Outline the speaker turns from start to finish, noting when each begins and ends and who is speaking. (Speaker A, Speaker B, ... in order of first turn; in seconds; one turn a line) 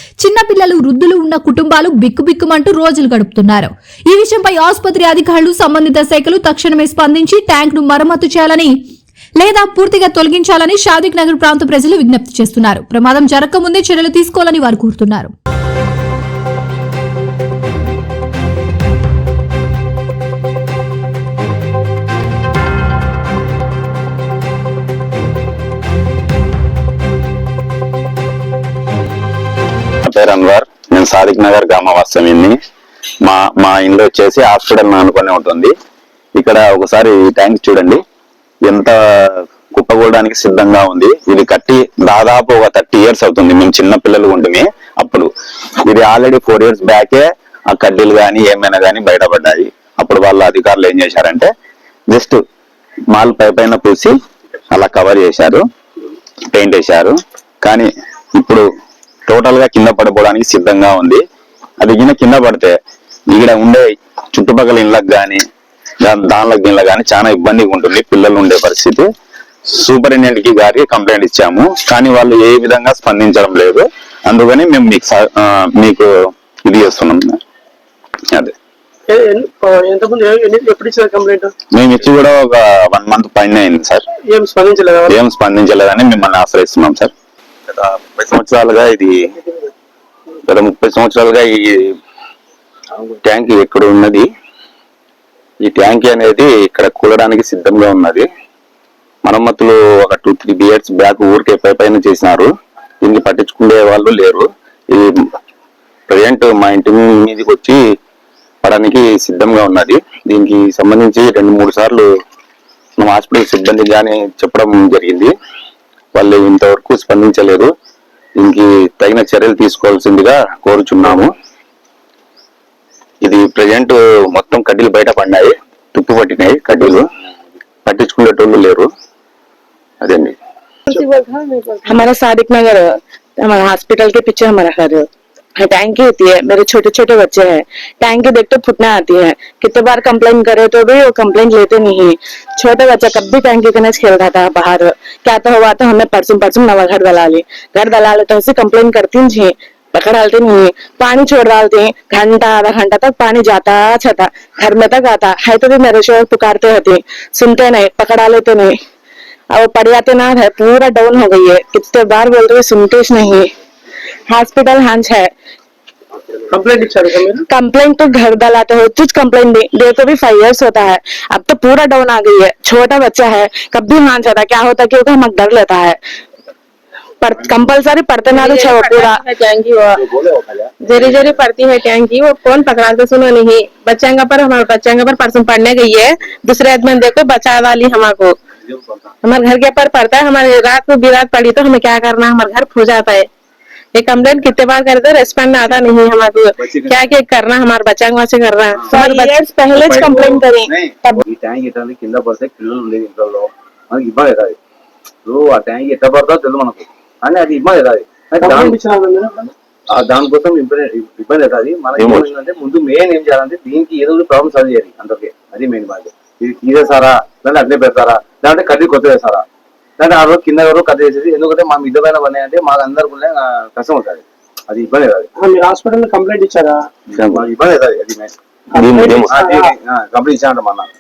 Speaker A: 0.2-8.7
Speaker A: 9.4-15.3
Speaker B: 30.0-32.6
Speaker B: 33.2-35.7
Speaker B: 36.4-38.0
Speaker B: 38.7-45.3
Speaker B: 45.8-51.5
Speaker B: 52.1-52.4
Speaker B: 53.1-54.1
Speaker B: 54.7-55.6
Speaker B: 56.5-58.6
Speaker B: 59.3-61.2
Speaker B: 61.8-62.7
Speaker B: 63.3-65.4
Speaker B: 66.0-69.1
Speaker B: 69.7-76.1
Speaker B: 76.7-77.4
Speaker C: 79.1-81.5
Speaker B: 81.7-84.0
Speaker C: 84.3-85.2
Speaker B: 85.1-87.1
Speaker B: 87.7-89.2
Speaker B: 90.5-91.9
Speaker B: 93.2-94.3
Speaker B: 95.6-98.3
Speaker B: 99.2-102.5
Speaker B: 103.0-105.1
Speaker B: 106.1-107.8
Speaker B: 108.6-112.1
Speaker B: 113.0-115.3
Speaker B: 116.1-117.7
Speaker B: 118.4-121.3
Speaker B: 123.2-127.1
Speaker B: 127.9-128.9
Speaker B: 130.0-130.3
Speaker C: 130.9-132.1
Speaker D: 131.9-135.1
Speaker D: 135.6-158.8
Speaker D: 159.5-163.5
Speaker D: 164.3-165.3
Speaker C: 166.5-167.4
Speaker D: 167.5-176.0
Speaker D: 177.2-179.2
Speaker E: 178.3-180.0
Speaker F: 180.0-181.4
Speaker E: 180.8-188.3
Speaker F: 188.7-189.0
Speaker E: 189.2-193.3
Speaker E: 193.9-200.3
Speaker F: 195.4-195.9
Speaker F: 196.6-197.0
Speaker F: 198.7-199.1
Speaker D: 198.9-201.2
Speaker F: 199.7-204.6
Speaker F: 205.3-208.8
Speaker C: 208.4-209.5
Speaker F: 209.9-219.4
Speaker B: 212.0-212.3
Speaker F: 220.0-225.3
Speaker C: 225.4-226.8
Speaker B: 227.1-227.4
Speaker F: 227.3-228.3
Speaker C: 228.7-229.7
Speaker B: 228.8-229.4
Speaker F: 229.2-230.9